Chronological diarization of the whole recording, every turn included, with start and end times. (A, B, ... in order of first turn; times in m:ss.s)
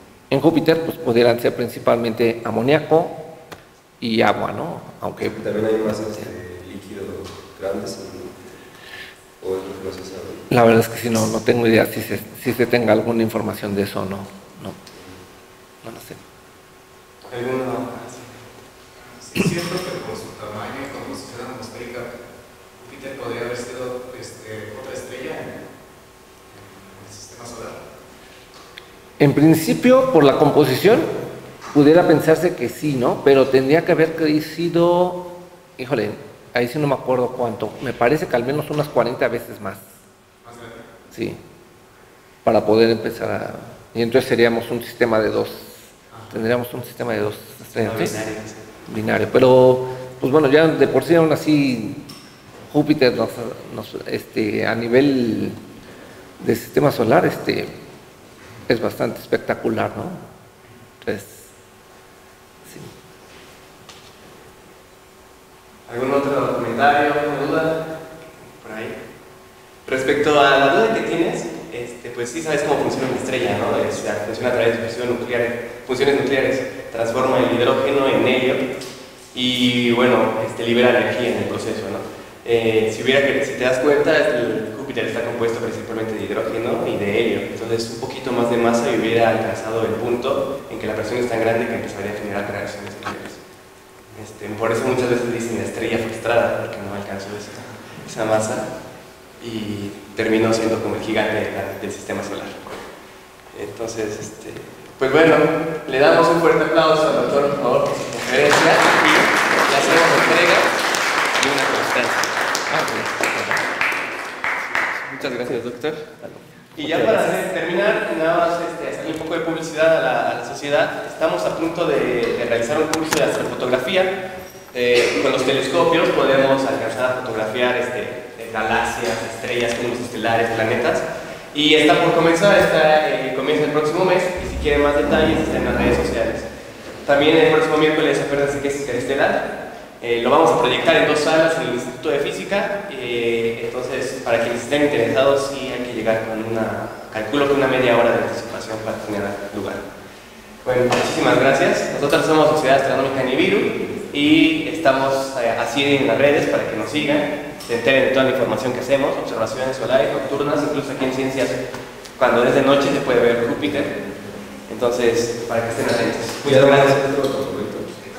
0:00.3-0:03.3 A
0:04.0-0:05.4 A
0:05.2-0:08.5 B
0:09.4-0:10.5 B
0:10.5-0:14.8 A
0:14.9-0:15.2 B
0:15.8-0:16.2 A
0:17.3-0:18.3 C
0:19.2-0:22.1 D
0:22.8-0:25.6 D
0:26.5-0:27.8 D
0:29.2-0:31.1 A
0:31.7-0:39.8 A
0:40.4-0:40.8 D
0:41.1-0:41.4 A
0:42.4-0:48.2 A
0:47.8-0:48.6 C
0:48.9-0:52.0 A
0:52.7-0:55.6 A
0:56.4-0:57.7 A
0:58.7-1:00.2 A
1:01.0-1:01.5 A
1:02.6-1:02.9 A
1:05.9-1:07.9 C
1:08.5-1:09.0 C
1:09.8-1:18.7 C
1:19.3-1:33.4 C
1:34.2-1:38.7 C
1:39.4-1:42.8 C
1:43.5-1:50.8 C
1:51.4-1:52.3 C
1:52.7-1:53.6 A
1:55.0-1:56.1 C
1:56.2-1:57.4 A
1:56.8-2:04.2 C
2:04.7-2:16.5 C
2:17.0-2:29.8 C
2:30.6-2:41.6 C
2:42.2-2:44.0 C
2:44.7-2:47.0 C
2:46.4-2:47.9 B